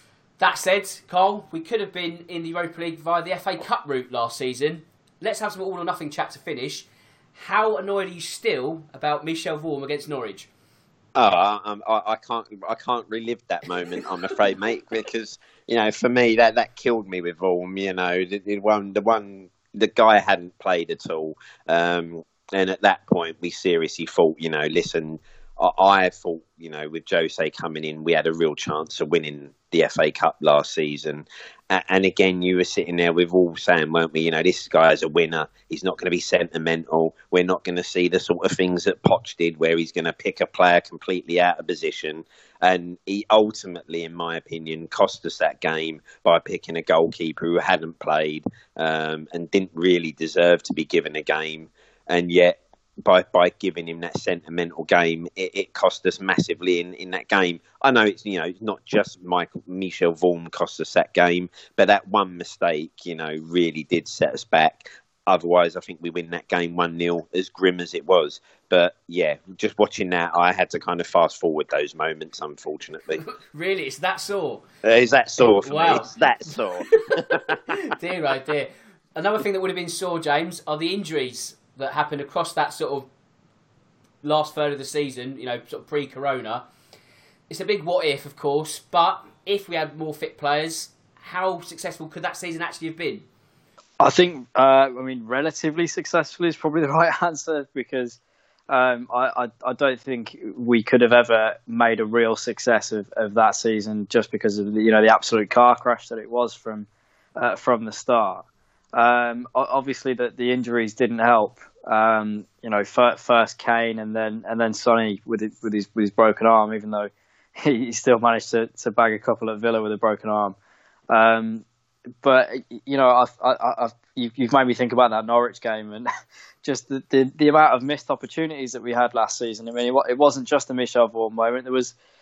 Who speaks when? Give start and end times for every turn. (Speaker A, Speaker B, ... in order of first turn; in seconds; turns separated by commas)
Speaker A: 0.4-10.5, Speaker B: 11.2-73.2, Speaker A: 73.3-74.7, Speaker B: 74.8-77.9, Speaker A: 75.5-76.1, Speaker A: 76.9-77.2, Speaker A: 77.8-83.1, Speaker A: 84.2-86.7, Speaker A: 87.5-93.2, Speaker C: 94.0-98.2, Speaker C: 98.7-120.6, Speaker C: 121.1-121.7, Speaker C: 122.2-126.1, Speaker C: 126.6-131.9